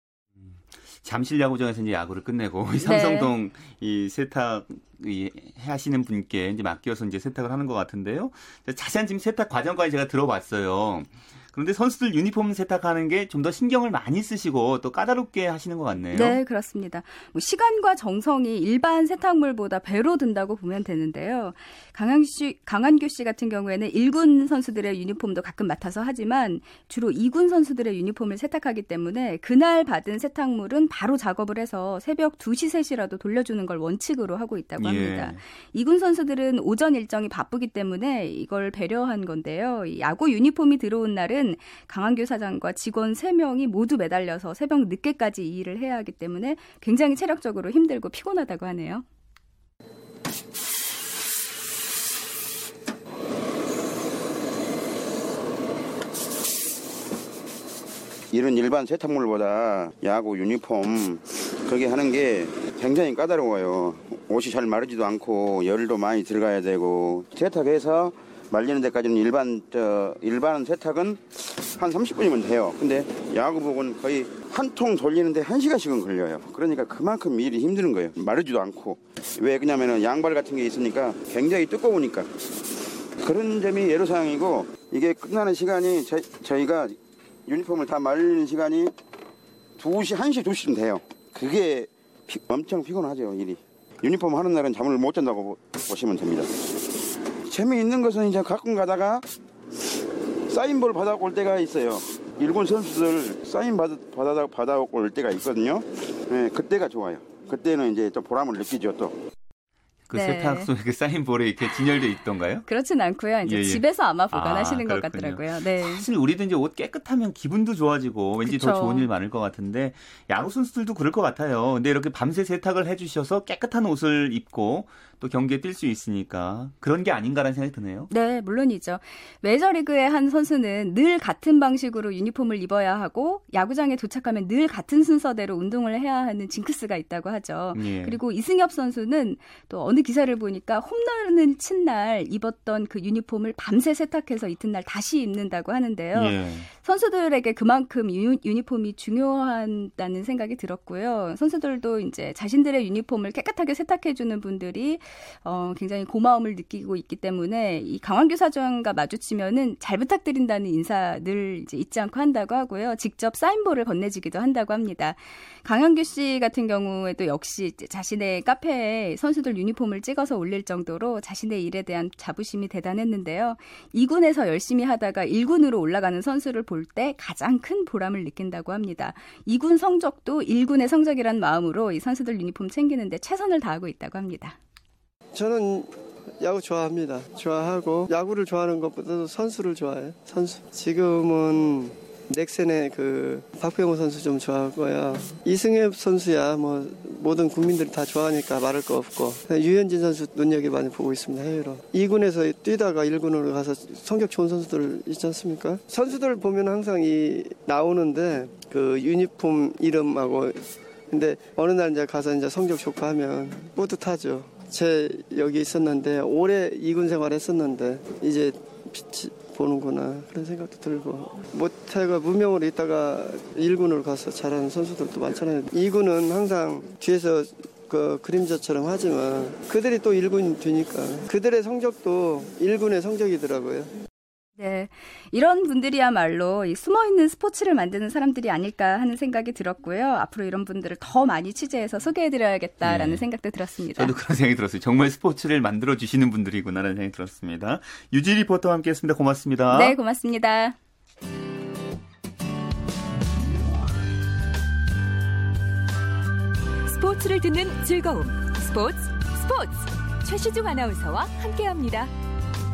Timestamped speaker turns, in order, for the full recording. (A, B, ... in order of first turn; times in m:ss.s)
0:00.4-0:16.4 A
0:02.8-0:03.3 B
0:16.1-0:49.0 B
0:34.8-0:35.4 A
0:58.3-1:22.3 C
1:23.2-1:28.9 C
1:29.8-1:36.5 C
1:37.4-1:39.2 C
1:40.5-1:49.1 C
1:50.1-1:52.6 A
1:50.1-1:50.7 B
1:52.7-1:56.1 B
1:53.4-2:08.1 A
1:58.4-1:59.1 B
2:08.1-3:04.6 B
2:17.7-2:18.2 A
2:26.1-2:26.7 A
3:05.3-3:53.9 D
3:54.6-4:04.1 B
4:02.8-4:03.3 A
4:03.9-4:10.0 A
4:09.7-4:10.8 B
4:16.8-4:22.1 E